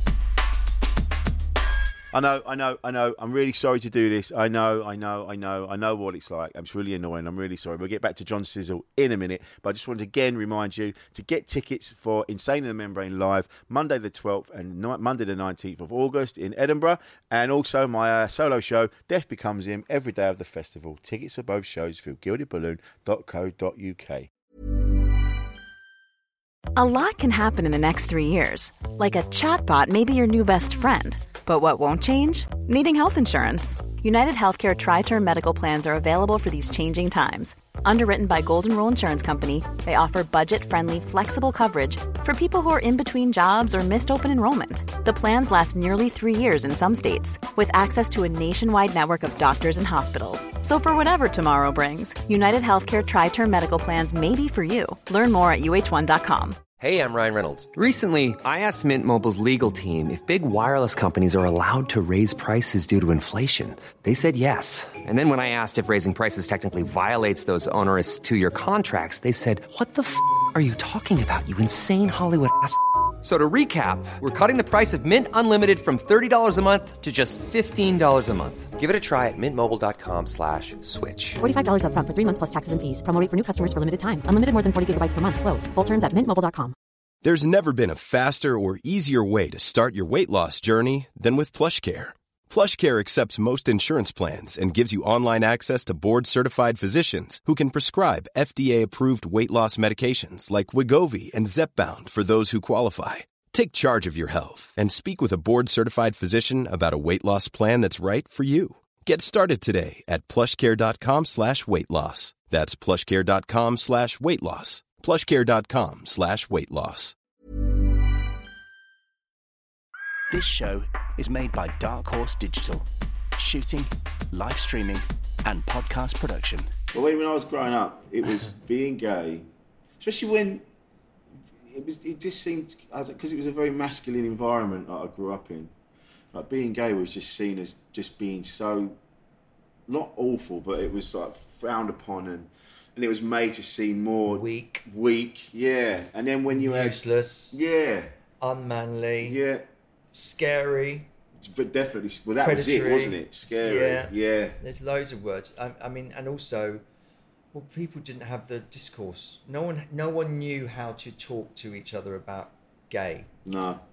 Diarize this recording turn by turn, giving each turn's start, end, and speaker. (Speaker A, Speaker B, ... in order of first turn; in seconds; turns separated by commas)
Speaker A: 2.1-24.3, Speaker B: 26.8-56.6, Speaker C: 56.8-81.4, Speaker D: 81.4-86.8, Speaker E: 87.2-117.2, Speaker F: 120.3-126.7, Speaker A: 126.9-129.5, Speaker A: 130.0-130.7, Speaker A: 131.6-135.7, Speaker A: 136.3-139.0, Speaker A: 139.9-147.0, Speaker G: 144.3-144.8, Speaker G: 146.5-147.6, Speaker A: 147.5-148.1, Speaker G: 148.4-149.4, Speaker A: 149.2-149.7, Speaker G: 150.1-151.1, Speaker A: 151.4-154.6, Speaker G: 152.4-156.8, Speaker G: 157.5-163.3, Speaker A: 163.4-163.8